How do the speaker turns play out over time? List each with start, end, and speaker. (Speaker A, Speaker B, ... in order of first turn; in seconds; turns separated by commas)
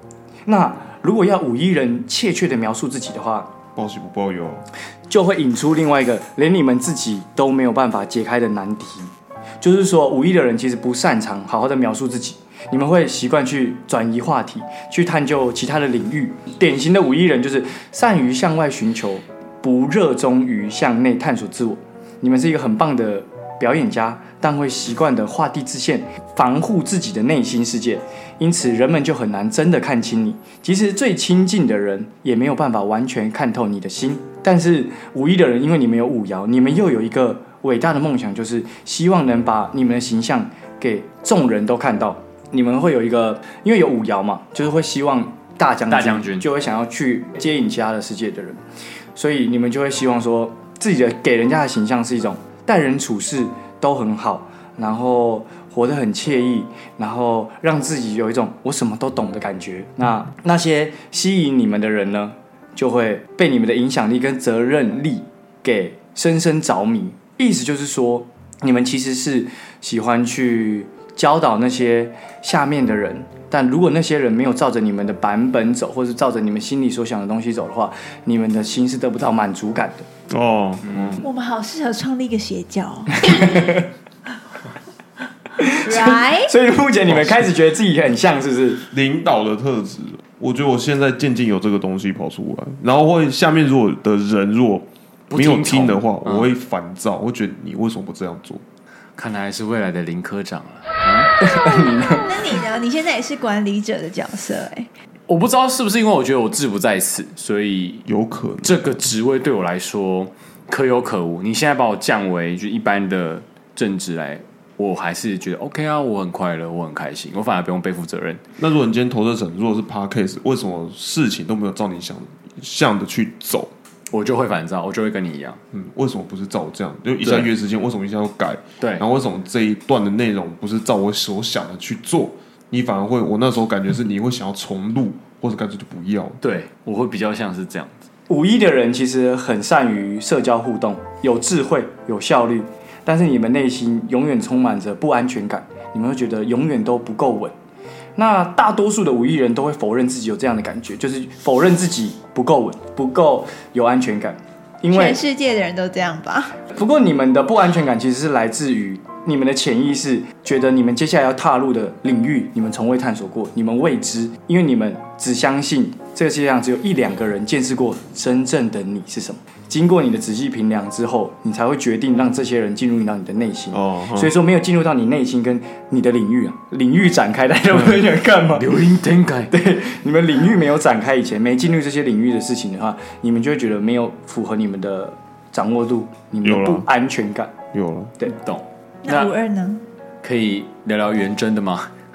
Speaker A: 0.5-3.5, Speaker B: 3.8-4.6, Speaker A: 5.1-48.6, Speaker C: 45.9-46.5, Speaker A: 49.1-80.1, Speaker B: 80.3-81.2, Speaker C: 80.8-81.2, Speaker D: 81.2-83.7, Speaker A: 83.2-83.9, Speaker A: 85.6-88.8, Speaker D: 85.8-86.5, Speaker B: 88.9-98.6, Speaker C: 95.3-96.5, Speaker C: 99.2-101.3, Speaker A: 101.4-102.2, Speaker D: 101.8-104.9, Speaker C: 105.3-108.1, Speaker B: 108.1-108.9, Speaker C: 108.6-118.4, Speaker B: 118.6-123.7, Speaker C: 124.1-125.6, Speaker B: 125.7-136.4, Speaker C: 127.2-127.5, Speaker C: 128.8-129.1, Speaker C: 136.4-138.1, Speaker A: 138.3-147.5, Speaker A: 148.2-155.2, Speaker D: 154.9-156.6, Speaker A: 156.7-178.7, Speaker B: 173.7-174.3, Speaker C: 178.6-179.5, Speaker A: 179.5-187.6, Speaker B: 186.4-186.9, Speaker B: 187.7-188.2, Speaker C: 188.3-189.3, Speaker D: 189.0-189.8, Speaker C: 190.2-191.9